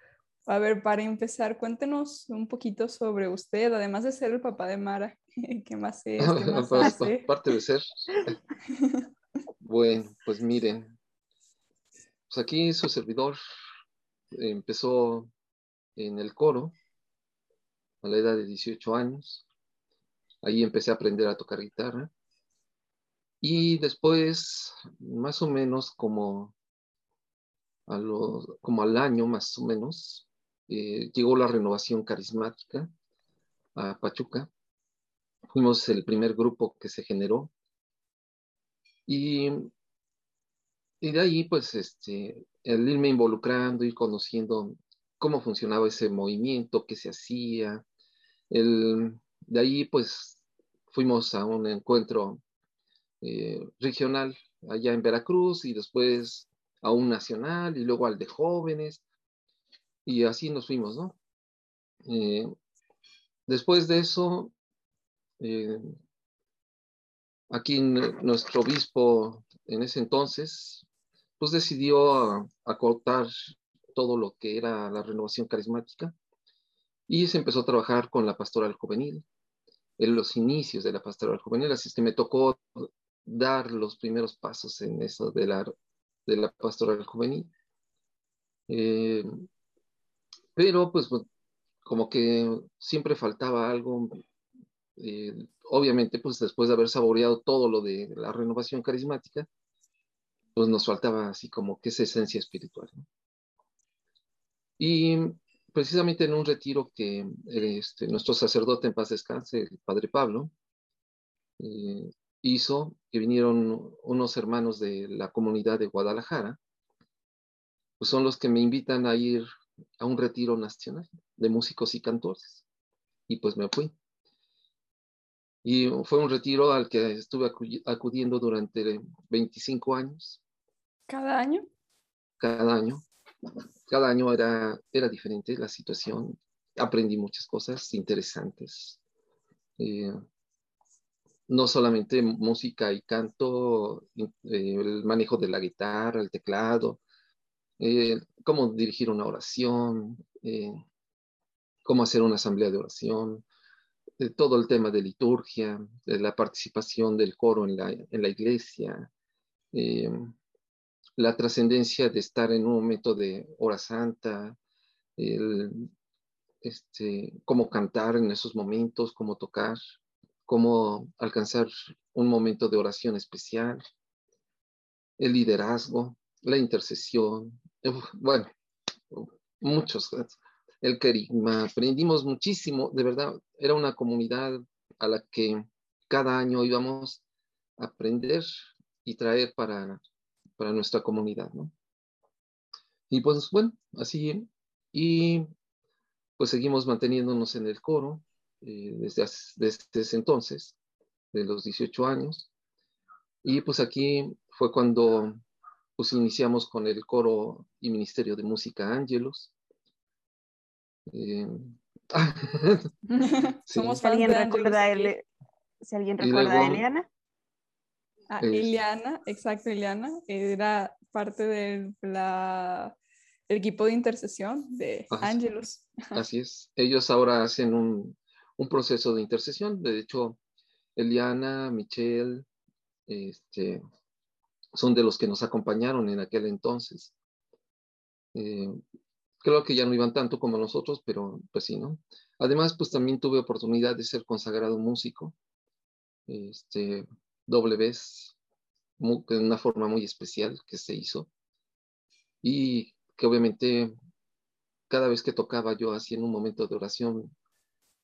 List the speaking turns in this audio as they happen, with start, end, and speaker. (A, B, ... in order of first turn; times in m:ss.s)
0:00.5-0:07.3 A
0:06.2-0:07.9 B
0:08.7-0:09.1 A
0:09.6-0:11.0 B
0:12.3-0:13.4 B
0:14.4-0:15.3 B
0:16.0-0:16.8 B
0:18.0-0:19.4 B
0:20.4-0:22.1 B
0:23.4-0:26.5 B
0:27.9-0:32.9 B
0:33.8-0:34.5 B
0:35.5-0:37.5 B
0:39.1-0:39.7 B
0:41.0-0:47.8 B
0:48.5-0:52.4 B
0:53.2-0:59.0 B
1:00.0-1:01.2 B
1:02.1-1:02.5 B
1:03.5-1:04.5 B
1:05.4-1:05.9 B
1:07.5-1:10.8 B
1:11.4-1:16.2 B
1:17.1-1:19.3 B
1:20.0-1:25.7 B
1:26.3-1:27.5 B
1:28.7-1:29.4 B
1:30.6-1:31.2 B
1:31.8-1:34.2 B
1:35.0-1:39.5 B
1:40.6-1:43.1 B
1:44.8-1:50.5 B
1:51.6-1:56.6 B
1:58.0-1:59.5 B
2:00.0-2:02.6 B
2:03.3-2:03.9 B
2:05.6-2:10.4 B
2:11.1-2:11.7 A
2:12.4-2:13.1 B
2:13.9-2:19.0 B
2:19.8-2:20.1 B
2:21.5-2:27.0 B
2:27.8-2:30.8 B
2:31.8-2:33.4 B
2:34.2-2:39.1 B
2:39.7-2:40.3 B
2:41.2-2:44.6 B
2:45.2-2:45.9 B
2:46.6-2:49.8 B
2:50.5-2:53.8 B
2:55.2-2:58.5 B
2:59.1-3:07.2 B
3:07.8-3:08.5 B
3:09.0-3:10.0 B
3:10.6-3:11.7 B
3:13.1-3:15.5 B
3:16.4-3:20.8 B
3:21.3-3:22.5 B
3:23.4-3:25.4 B
3:26.0-3:29.5 B
3:31.1-3:32.9 B
3:33.1-3:35.1 A
3:33.7-3:34.0 B
3:34.0-3:35.2 C
3:35.8-3:37.1 C
3:36.2-3:36.8 B
3:38.3-3:43.0 A
3:38.4-3:38.8 B
3:43.5-3:46.2 A
3:45.1-3:45.4 B
3:46.1-3:50.4 B
3:51.0-3:52.5 B
3:53.1-3:53.8 B
3:54.7-3:57.2 B
3:58.4-3:58.8 B
3:59.4-4:05.4 B
4:06.3-4:08.4 B
4:09.0-4:11.3 B
4:12.4-4:13.9 B
4:14.9-4:17.3 B